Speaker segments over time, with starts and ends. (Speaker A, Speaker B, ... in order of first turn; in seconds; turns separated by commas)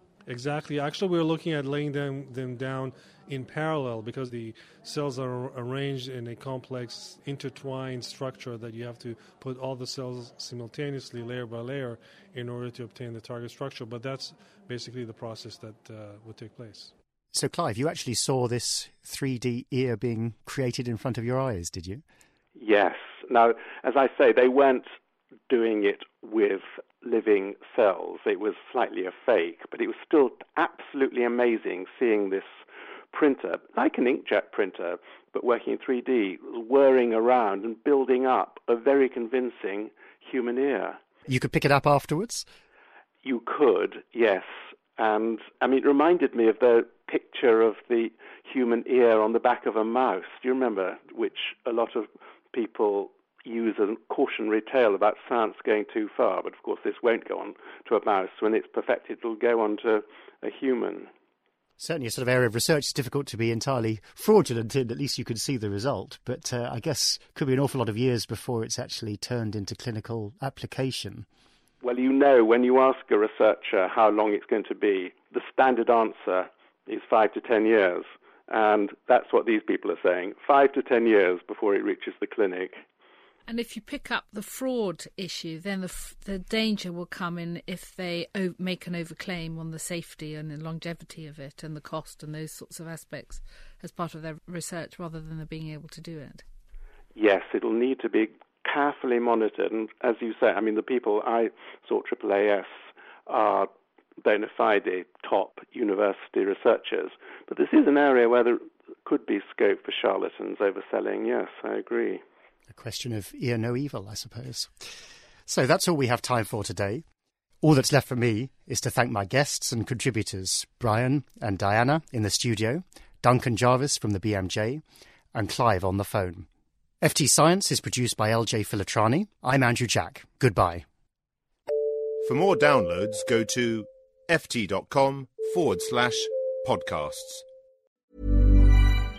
Speaker A: 0.3-16.9, Speaker B: 17.3-22.0, Speaker C: 22.6-24.8, Speaker C: 25.5-32.5, Speaker C: 33.1-41.0, Speaker B: 41.3-42.5, Speaker C: 43.2-44.4, Speaker C: 45.0-61.1, Speaker B: 61.8-71.2, Speaker C: 71.8-82.8, Speaker D: 83.4-96.4, Speaker C: 97.2-102.7, Speaker C: 103.3-103.7, Speaker C: 104.2-112.2, Speaker B: 112.7-114.7, Speaker B: 115.5-117.0, Speaker B: 117.6-124.8, Speaker B: 125.3-126.5, Speaker B: 127.0-130.8, Speaker E: 132.2-137.4